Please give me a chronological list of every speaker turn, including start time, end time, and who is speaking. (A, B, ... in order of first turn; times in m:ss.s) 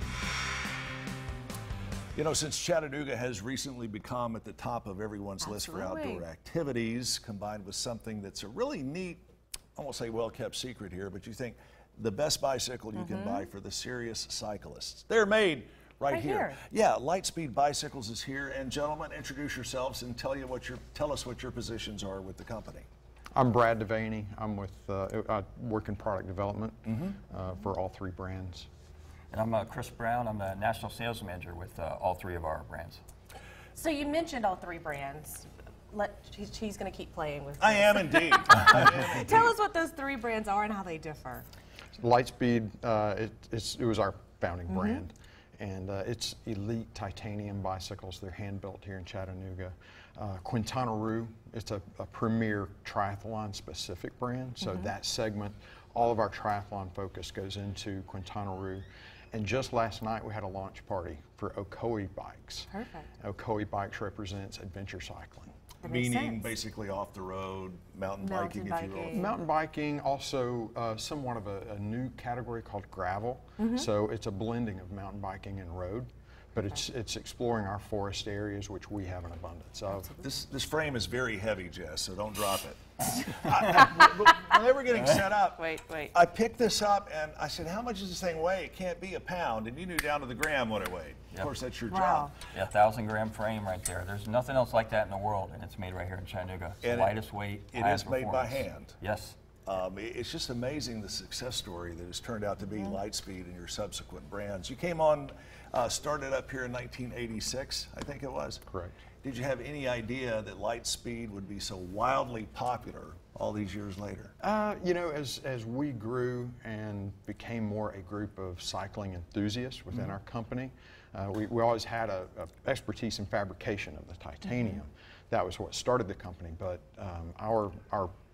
0:02.1-0:09.2 A
0:05.4-0:06.2 B
0:09.8-0:22.9 A
0:13.0-0:13.4 B
0:16.1-0:16.6 B
0:23.3-0:28.7 C
0:29.3-0:33.0 D
0:33.8-0:41.4 B
0:37.6-0:39.5 A
0:42.0-1:05.5 C
1:02.7-1:03.1 B
1:05.8-1:06.5 B
1:05.8-1:09.2 A
1:08.2-1:09.3 B
1:09.1-1:20.1 C
1:20.2-1:32.3 A
1:25.6-1:26.1 B
1:31.9-1:32.3 B
1:32.5-1:39.4 D
1:36.8-1:37.2 A
1:37.7-1:39.0 A
1:39.6-1:48.6 A
1:48.7-1:49.0 C
1:49.2-1:54.3 A
1:54.4-2:08.1 C